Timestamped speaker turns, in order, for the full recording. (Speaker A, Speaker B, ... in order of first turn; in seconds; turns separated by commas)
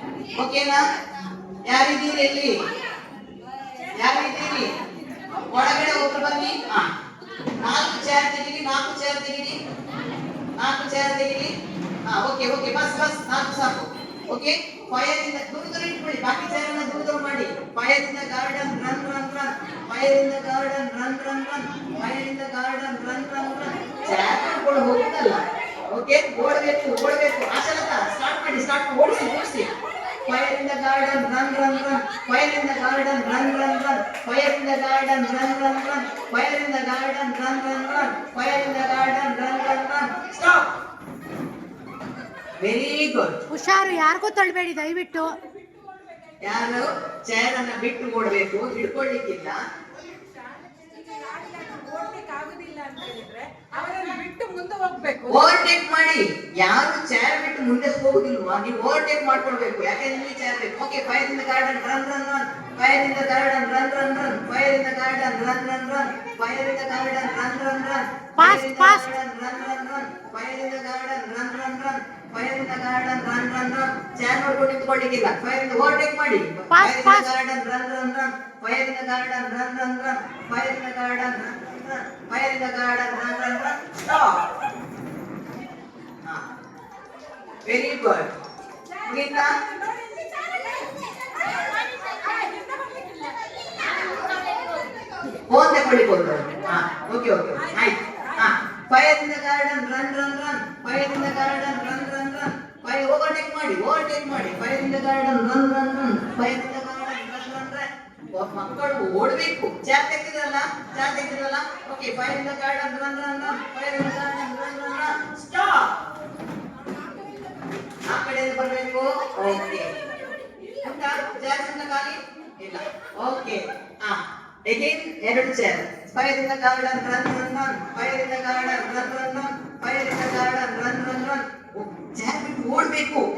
Speaker A: 0.3-0.8, Speaker A: 1.7-2.5, Speaker A: 4.0-4.7, Speaker A: 5.5-6.9, Speaker A: 7.6-9.6, Speaker A: 10.6-11.5, Speaker A: 12.1-25.4, Speaker A: 25.9-29.7, Speaker A: 30.3-40.6, Speaker A: 42.6-43.4, Speaker B: 43.5-45.3, Speaker A: 46.4-49.6, Speaker C: 51.2-55.3, Speaker A: 55.3-84.4, Speaker B: 68.4-69.0, Speaker B: 76.7-77.3, Speaker A: 87.7-88.3, Speaker A: 89.0-89.5, Speaker A: 95.5-107.8, Speaker A: 108.3-115.9, Speaker A: 118.1-119.9, Speaker A: 120.8-133.2